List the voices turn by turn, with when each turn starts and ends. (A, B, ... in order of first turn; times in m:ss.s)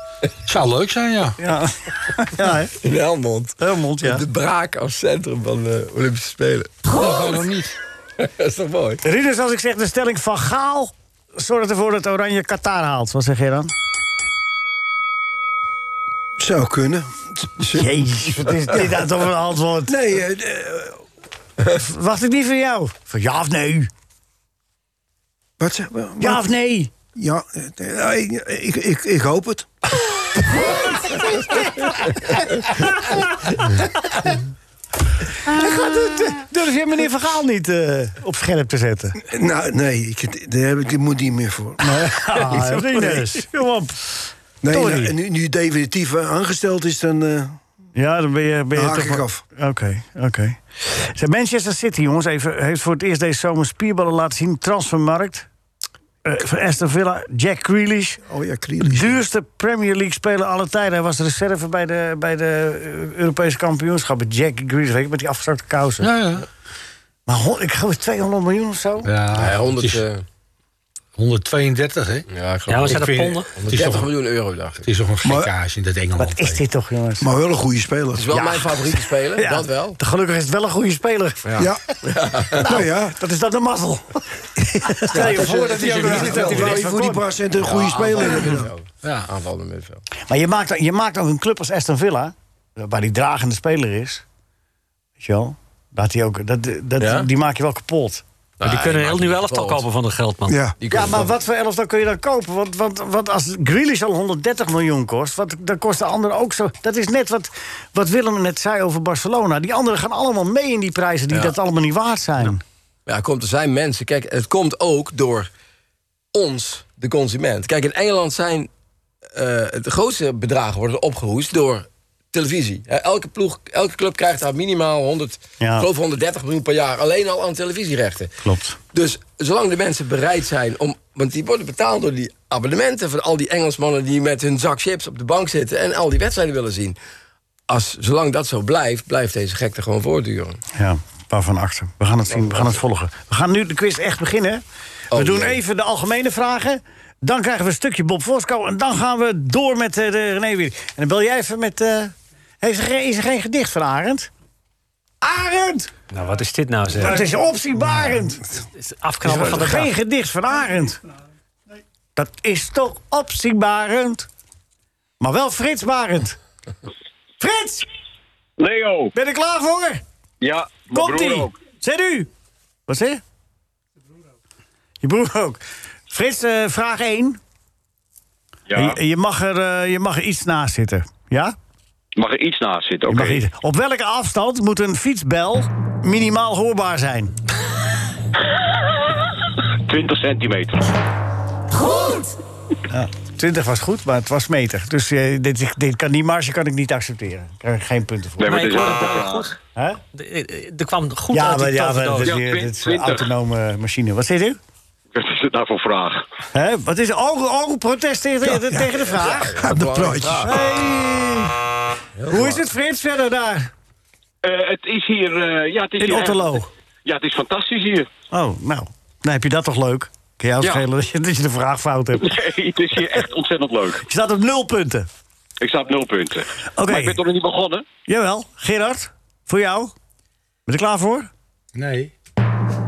0:00.4-0:01.4 A
0:01.4-0:02.7 B
0:02.8-0:06.8 C
0:03.6-0:04.3 B
0:06.9-0:07.8 A
0:08.2-0:09.0 C
0:09.0-0:13.7 B
0:16.4-0:17.9 D
0:17.7-0:20.0 B
0:18.4-0:19.1 D
0:19.9-0:21.0 D
0:21.7-0:23.9 B
0:25.6-0:26.4 D
0:26.2-0:26.9 B
0:27.1-0:29.7 D
0:32.3-0:32.8 B
0:35.4-0:39.2 B
0:39.3-0:43.2 D
0:41.8-0:44.2 B
0:42.5-0:43.2 E
0:44.6-0:47.6 D
0:44.7-0:45.2 B
0:47.9-0:55.5 B
0:48.7-0:49.4 D
0:56.2-0:58.2 B
0:58.3-0:59.2 D
0:58.8-1:06.1 B
1:06.0-1:06.4 A
1:07.3-1:09.1 B
1:09.0-1:10.0 A
1:09.3-1:10.2 C
1:11.2-1:12.3 A
1:12.3-1:14.8 C
1:12.7-1:13.5 E
1:12.8-1:14.1 A
1:14.8-1:16.6 A
1:15.2-1:15.5 D
1:16.2-1:17.3 B
1:17.2-1:18.6 D
1:18.1-1:20.0 C
1:18.3-1:21.7 B
1:21.4-1:22.7 C
1:21.6-1:21.8 D
1:22.4-1:23.1 D
1:22.5-1:27.3 B
1:25.0-1:28.7 D
1:25.1-1:26.8 A
1:27.6-1:30.0 C
1:29.0-1:29.3 A
1:30.3-1:34.2 B
1:35.2-1:38.2 B
1:37.0-1:37.3 C
1:38.6-1:39.8 C
1:38.6-1:40.7 E
1:40.5-1:40.8 D
1:40.8-1:41.4 C
1:40.9-1:52.6 B
1:51.3-1:51.6 C
1:53.0-1:55.5 C
1:56.3-1:58.7 C
1:59.3-2:08.3 C
2:05.6-2:05.9 B
2:08.4-2:08.8 B
2:08.9-2:17.0 C
2:17.7-2:20.6 C
2:20.7-2:34.3 B
2:22.3-2:22.8 C
2:25.1-2:25.6 C
2:35.2-2:35.9 B
2:36.1-2:37.3 E
2:37.0-2:38.4 B
2:38.7-2:39.9 E
2:39.2-2:41.0 B
2:42.2-2:44.3 B
2:45.2-2:46.4 B
2:47.4-2:47.9 B
2:48.6-2:49.1 F
2:49.1-2:50.0 B
2:50.4-2:51.6 F
2:50.9-2:52.3 B
2:52.9-2:53.2 B
2:55.0-2:57.4 B
2:58.7-2:59.0 F
2:58.8-3:01.6 B
3:02.2-3:03.4 F
3:03.1-3:07.3 B
3:09.9-3:10.9 F
3:12.9-3:19.0 B
3:18.4-3:19.6 F
3:18.4-3:19.6 E
3:19.7-3:20.0 B
3:20.1-3:22.3 E
3:21.3-3:24.6 B
3:22.2-3:23.3 F
3:25.1-3:26.2 F
3:26.5-3:29.7 B
3:28.5-3:30.8 D
3:28.9-3:30.6 C
3:30.3-3:31.5 B
3:32.2-3:32.6 C
3:32.3-3:33.7 B
3:34.4-3:38.1 F
3:36.0-3:36.7 B
3:38.3-3:42.4 B
3:40.6-3:40.8 F
3:42.2-3:44.0 F
3:44.0-3:45.1 B
3:45.6-3:47.8 F
3:46.8-3:47.2 B
3:48.1-3:49.9 B
3:50.7-3:51.3 B
3:51.7-3:52.1 A